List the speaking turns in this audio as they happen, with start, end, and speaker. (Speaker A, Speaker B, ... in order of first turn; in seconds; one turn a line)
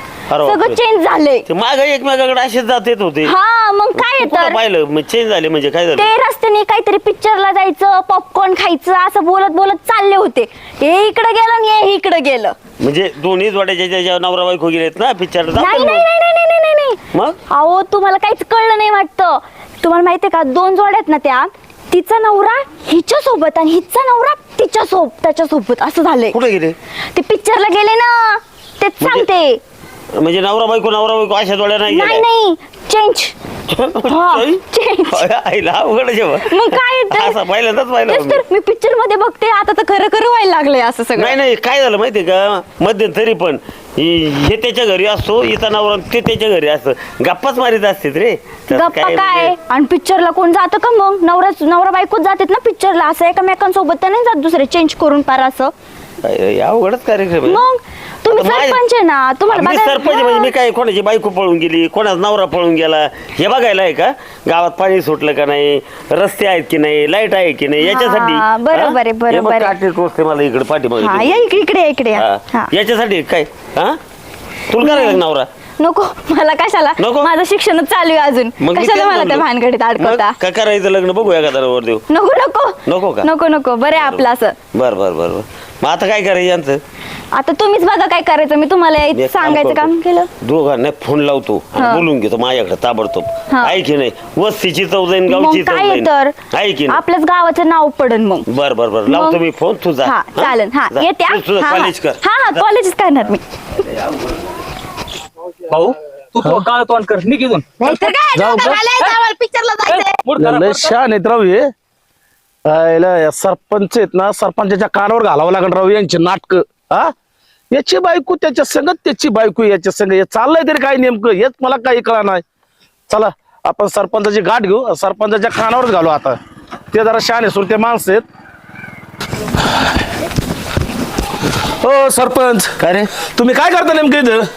Speaker A: 0.3-0.8
Speaker B: 0.4-1.5
Speaker A: 1.5-3.4
Speaker B: 3.2-4.6
Speaker A: 3.9-6.1
Speaker B: 6.0-12.6
Speaker A: 12.8-16.1
Speaker B: 15.6-17.0
Speaker A: 17.1-17.4
Speaker B: 17.5-26.4
Speaker A: 26.3-26.8
Speaker B: 27.1-29.6
Speaker A: 29.0-29.3
Speaker A: 30.1-32.2
Speaker B: 31.9-33.4
Speaker A: 33.7-38.4
Speaker B: 34.1-35.3
Speaker B: 36.5-37.4
Speaker B: 38.1-41.4
Speaker A: 41.1-49.5
Speaker B: 48.7-55.7
Speaker A: 56.2-57.7
Speaker B: 57.5-60.5
Speaker A: 58.3-58.8
Speaker A: 59.5-71.6
Speaker B: 67.8-69.8
Speaker B: 71.0-72.7
Speaker A: 72.2-74.0
Speaker A: 74.7-75.5
Speaker B: 74.8-75.2
Speaker B: 75.8-80.3
Speaker A: 77.0-77.3
Speaker A: 78.6-79.5
Speaker A: 80.0-82.0
Speaker B: 82.1-84.5
Speaker A: 82.9-83.3
Speaker A: 83.9-86.8
Speaker B: 87.3-90.3
Speaker A: 89.1-97.0
Speaker B: 91.8-92.1
Speaker B: 93.5-93.8
Speaker B: 95.3-96.4
Speaker B: 96.9-98.5
Speaker A: 98.5-102.6
Speaker B: 99.1-99.4
Speaker B: 100.0-103.4
Speaker C: 105.7-109.2
Speaker D: 107.8-110.2
Speaker C: 109.9-110.9
Speaker E: 110.4-111.6
Speaker E: 112.7-117.1
Speaker E: 117.7-122.4
Speaker E: 123.1-126.4
Speaker E: 126.9-128.2
Speaker E: 131.8-132.7
Speaker A: 132.8-133.1
Speaker E: 133.4-134.4